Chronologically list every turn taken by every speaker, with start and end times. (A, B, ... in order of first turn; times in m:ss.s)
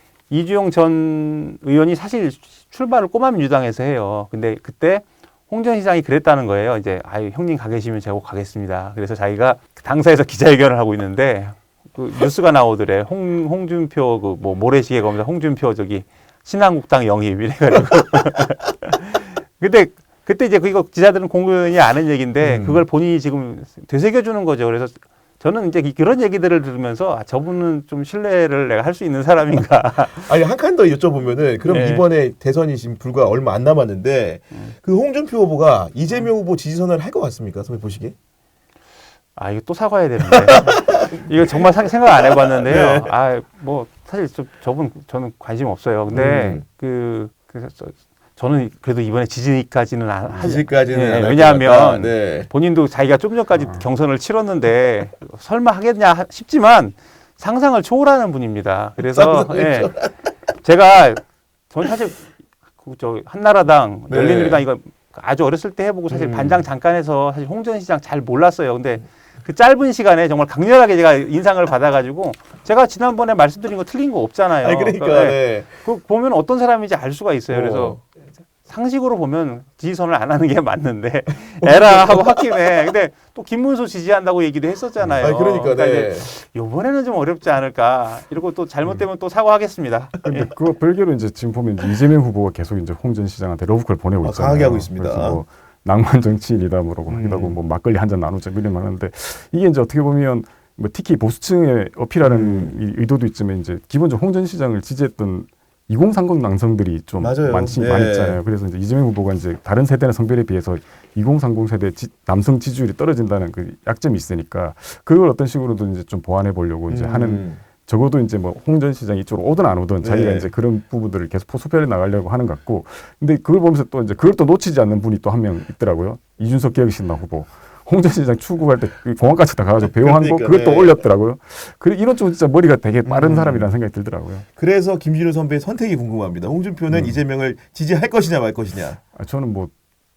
0:00.3-0:30.3 A
0:22.4-0:22.8 B
0:30.1-0:38.1 B
0:31.6-0:32.1 A
0:39.4-1:00.0 A
0:40.3-0:41.3 B
0:42.2-0:43.1 B
0:46.1-0:46.6 B
0:50.3-0:52.5 B
0:53.5-0:53.9 C
0:59.0-1:00.1 B
1:00.6-1:18.0 A
1:04.1-1:04.6 B
1:06.1-1:06.6 B
1:14.6-1:15.7 B
1:17.5-1:18.0 B
1:18.6-1:30.5 A
1:21.6-1:22.6 B
1:25.0-1:25.3 C
1:25.2-1:26.3 B
1:30.2-2:14.4 C
1:34.2-1:35.4 B
1:37.1-1:37.6 B
1:42.2-1:42.8 B
1:47.2-1:48.4 B
1:56.9-1:57.6 B
2:00.0-2:00.5 B
2:09.8-2:11.0 B
2:13.0-2:13.7 B
2:14.6-2:19.0 B
2:16.9-2:17.2 C
2:19.1-2:19.7 C